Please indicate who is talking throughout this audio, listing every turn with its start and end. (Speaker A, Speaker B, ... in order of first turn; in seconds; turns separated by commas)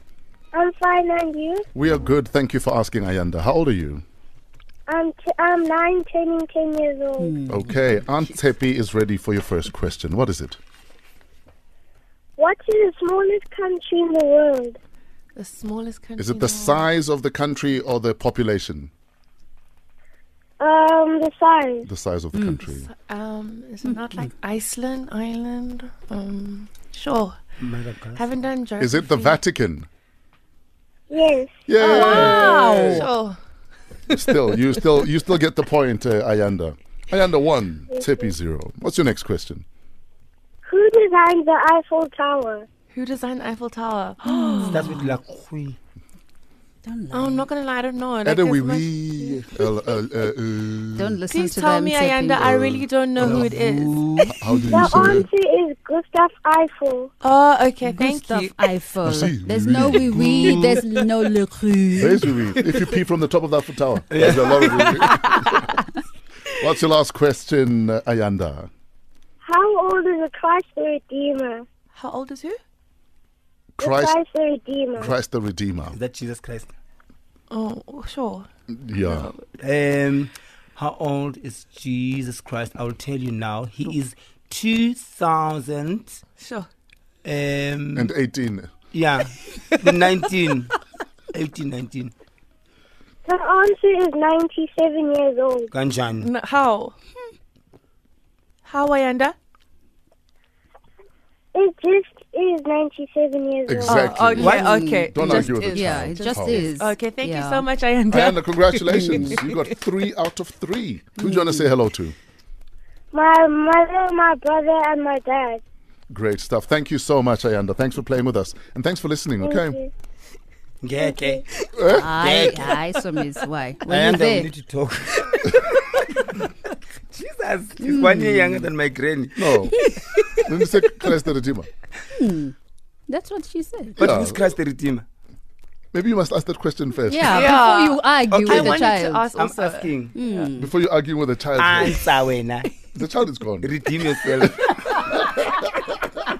Speaker A: 0.5-1.7, Speaker B: 1.7-4.0, Speaker A: 4.9-7.3, Speaker C: 7.2-8.0, Speaker B: 7.5-10.6, Speaker A: 12.4-14.8, Speaker D: 15.3-16.8, Speaker B: 16.2-18.9, Speaker A: 20.6-21.9, Speaker B: 21.9-22.9, Speaker C: 22.3-22.6, Speaker D: 22.9-27.6, Speaker C: 23.9-24.2, Speaker E: 27.6-28.2, Speaker D: 28.1-29.4, Speaker B: 28.8-29.9, Speaker A: 31.1-31.7, Speaker B: 31.7-33.0, Speaker C: 31.8-33.1, Speaker D: 31.8-33.4, Speaker B: 34.1-39.6, Speaker A: 37.9-38.3, Speaker A: 40.6-42.7, Speaker D: 42.9-44.9, Speaker C: 44.3-45.0, Speaker E: 44.7-45.8, Speaker C: 46.8-47.5, Speaker D: 47.1-49.7, Speaker B: 48.2-51.2, Speaker C: 50.9-52.5, Speaker D: 51.3-54.3, Speaker B: 52.4-53.5, Speaker E: 53.2-54.3, Speaker B: 54.2-55.3, Speaker A: 54.7-57.1, Speaker D: 57.2-58.6, Speaker C: 57.8-62.3, Speaker B: 59.0-60.8, Speaker B: 62.0-65.5, Speaker E: 64.1-64.9, Speaker D: 64.4-65.7, Speaker B: 66.6-68.7, Speaker A: 69.4-71.7, Speaker D: 71.9-72.6, Speaker B: 73.8-74.2, Speaker A: 73.8-75.1, Speaker B: 75.0-76.0, Speaker E: 75.9-76.7, Speaker D: 77.5-79.4, Speaker B: 78.7-79.3, Speaker E: 79.6-86.2, Speaker D: 86.4-86.7, Speaker E: 87.2-88.1, Speaker B: 87.9-88.7, Speaker E: 88.9-90.7, Speaker E: 91.3-92.1, Speaker A: 93.2-95.7, Speaker E: 95.7-96.3, Speaker D: 96.2-96.9, Speaker D: 98.6-99.3, Speaker A: 101.5-104.1, Speaker B: 103.7-106.7, Speaker D: 103.8-109.6, Speaker E: 104.3-104.7, Speaker C: 104.4-107.7, Speaker B: 108.1-112.2, Speaker C: 108.8-109.4, Speaker C: 111.2-111.7, Speaker A: 113.1-115.6, Speaker B: 116.1-119.8, Speaker A: 119.4-119.9, Speaker E: 120.8-121.4, Speaker B: 121.7-122.1, Speaker C: 121.8-124.5, Speaker E: 122.2-122.8, Speaker E: 123.9-126.3, Speaker E: 127.1-130.4, Speaker C: 127.8-128.7, Speaker B: 129.3-129.8, Speaker C: 129.7-130.0, Speaker B: 130.4-131.7, Speaker C: 132.1-132.5, Speaker C: 133.1-134.3, Speaker E: 134.0-135.1, Speaker B: 134.0-134.4, Speaker B: 135.9-137.6, Speaker C: 137.1-139.3, Speaker D: 137.3-140.5, Speaker E: 138.3-138.6, Speaker E: 139.3-140.2, Speaker C: 140.1-140.7, Speaker B: 140.6-142.1, Speaker E: 141.6-142.7, Speaker B: 142.9-144.7, Speaker E: 143.6-144.7